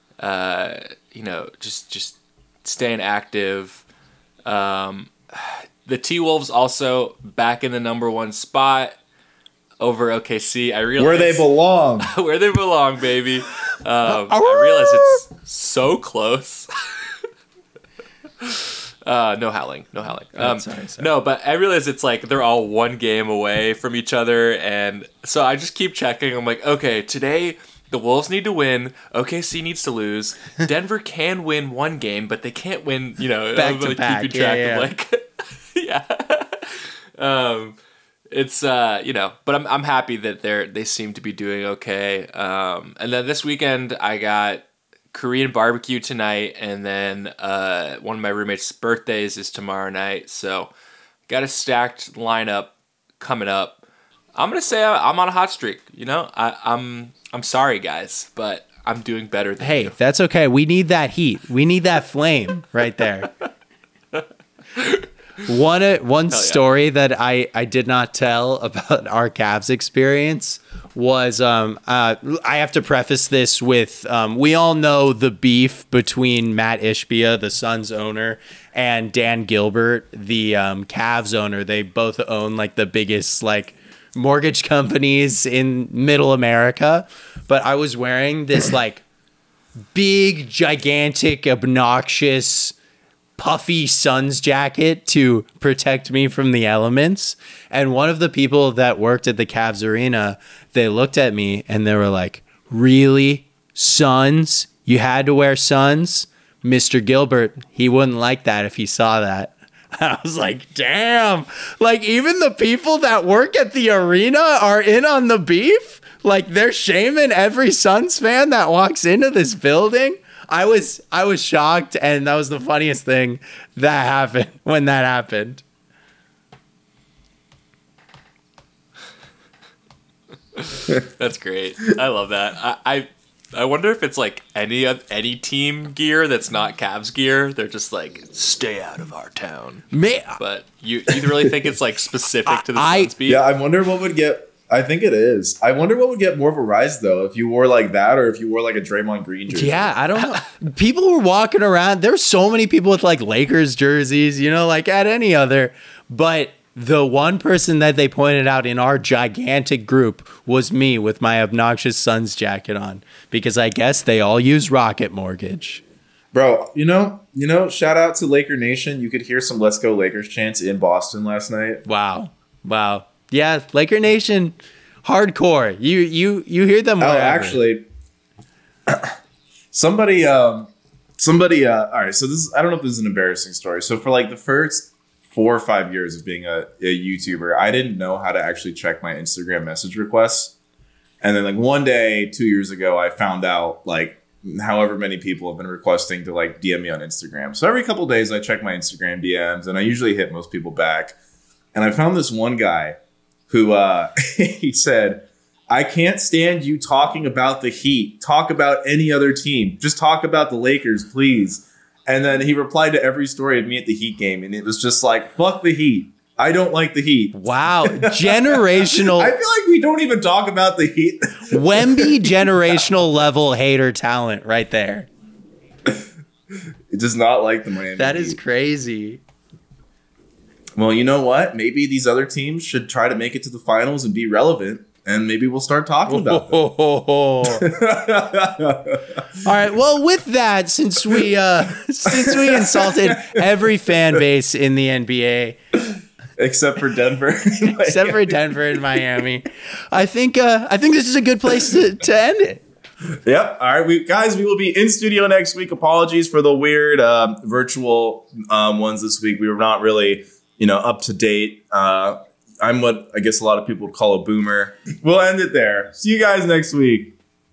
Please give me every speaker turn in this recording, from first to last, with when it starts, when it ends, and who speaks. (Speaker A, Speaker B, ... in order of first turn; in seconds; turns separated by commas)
Speaker A: 0.2-3.9, Speaker A: 4.5-9.0, Speaker A: 9.8-11.5, Speaker B: 11.0-12.1, Speaker A: 12.0-16.7, Speaker C: 14.1-15.2, Speaker A: 18.4-37.8, Speaker C: 20.4-21.1, Speaker C: 33.5-34.9, Speaker A: 38.3-50.7, Speaker A: 51.3-53.8, Speaker A: 54.4-59.9, Speaker C: 59.6-63.3, Speaker A: 64.8-65.1, Speaker C: 65.5-89.0, Speaker A: 66.3-66.6, Speaker C: 89.9-92.8, Speaker C: 93.4-125.6, Speaker A: 130.6-143.4, Speaker C: 139.9-140.4, Speaker C: 142.5-143.1, Speaker B: 143.3-149.9, Speaker C: 149.5-165.8, Speaker B: 166.3-171.8, Speaker C: 171.9-177.6, Speaker B: 177.0-177.8, Speaker B: 178.9-179.2, Speaker B: 179.7-190.5, Speaker B: 191.2-201.2, Speaker B: 201.7-203.0, Speaker B: 203.5-222.8, Speaker C: 217.3-219.3, Speaker C: 221.5-225.1, Speaker B: 226.9-228.4, Speaker C: 228.0-229.2, Speaker B: 230.8-236.6, Speaker C: 236.1-237.7, Speaker B: 237.5-239.4, Speaker C: 239.4-245.6, Speaker B: 242.1-244.2, Speaker B: 246.4-248.7, Speaker C: 247.8-252.6, Speaker B: 253.3-267.1